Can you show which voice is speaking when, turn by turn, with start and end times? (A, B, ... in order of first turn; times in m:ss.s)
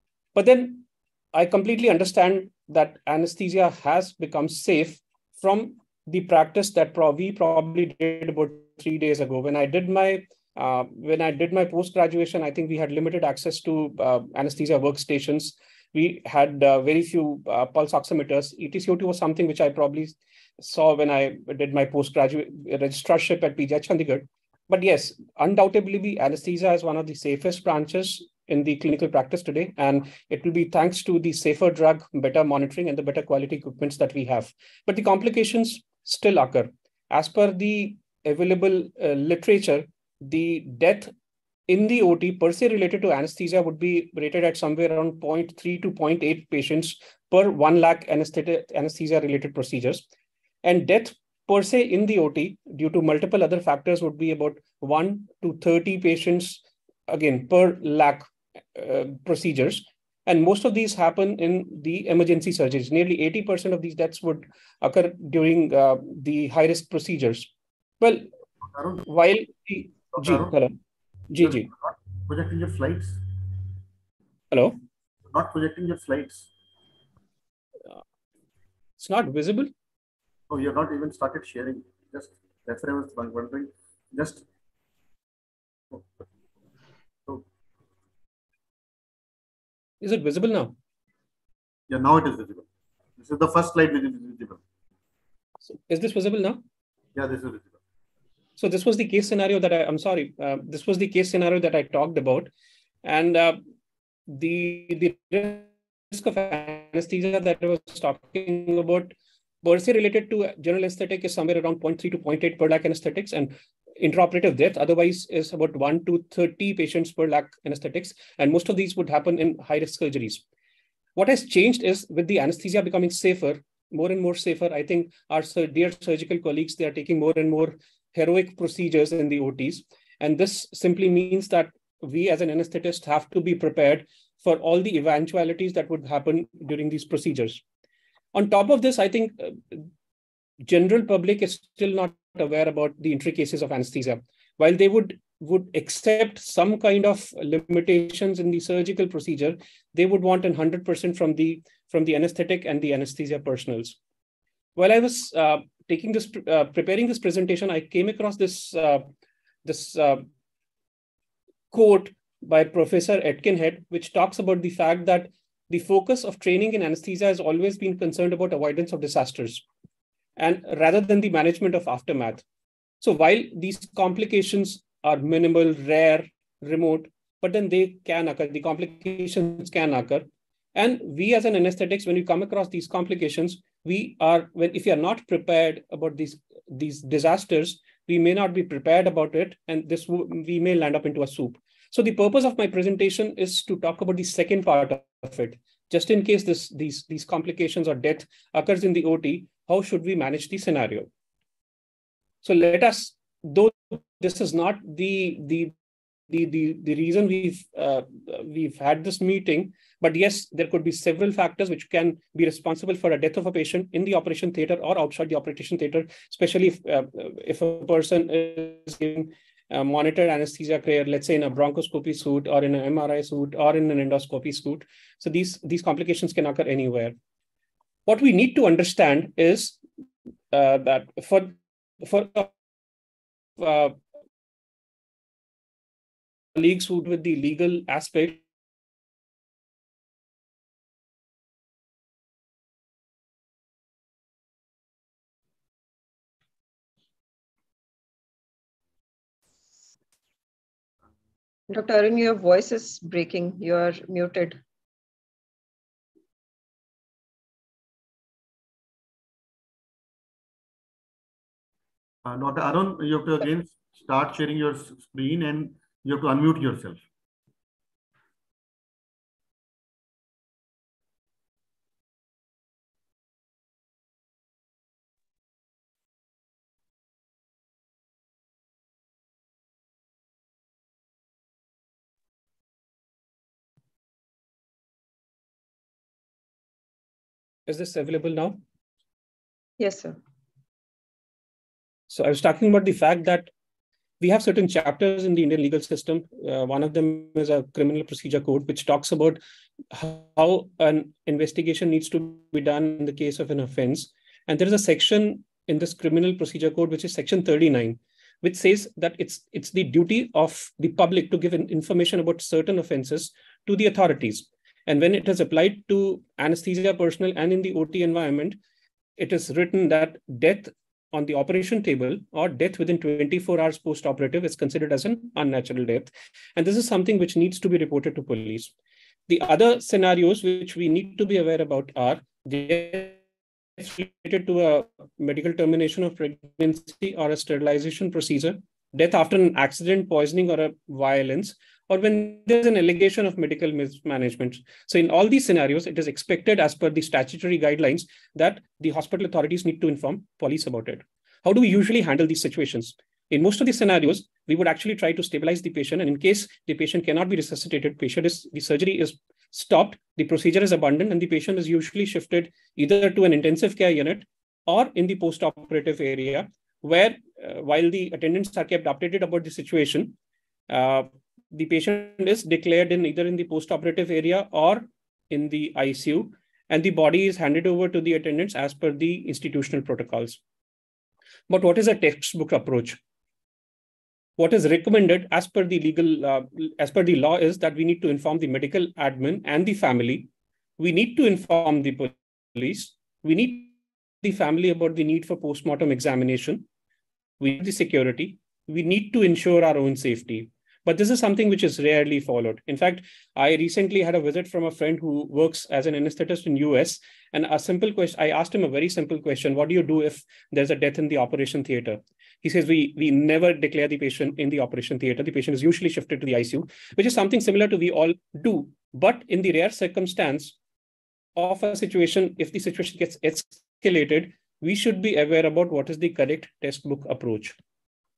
0:00.4-0:41.1 A
0:41.7-0:50.1 A
0:50.6-1:08.3 A
1:08.6-1:09.1 B
1:09.1-1:10.8 A
1:10.1-1:10.6 B
1:11.3-1:11.7 A
1:11.4-1:13.2 B
1:14.5-1:14.8 A
1:15.3-1:16.5 B
1:19.0-1:19.7 A
1:20.5-1:24.4 B
1:30.0-1:30.8 A
1:31.9-1:32.6 B
1:33.2-1:34.6 B
1:35.7-1:36.6 A
1:37.2-1:37.8 B
1:38.6-1:42.5 A
1:43.0-1:43.6 A
1:44.3-2:00.4 A
2:01.2-2:17.6 A
2:18.3-2:19.9 A
2:20.7-2:34.0 A
2:34.8-2:39.1 A
2:39.6-2:40.2 A
2:41.7-2:49.6 A
2:50.4-2:52.4 A
2:53.0-3:21.1 A
3:22.4-3:25.8 A
3:26.3-3:47.2 A
3:48.1-3:49.8 A
3:50.5-3:52.5 A
3:53.6-3:54.0 A
3:56.6-3:58.4 A
4:11.7-4:14.6 C
4:22.2-4:27.0 B
4:47.7-4:48.6 A
4:49.8-4:50.2 C
4:52.1-4:53.5 A
4:54.2-5:18.6 A
5:19.2-5:28.7 A
5:29.3-5:33.2 A
5:33.8-6:10.2 A
6:10.7-6:20.4 A
6:21.5-6:23.0 A
6:24.4-6:36.7 A
6:37.4-7:00.6 A
7:01.4-7:07.6 A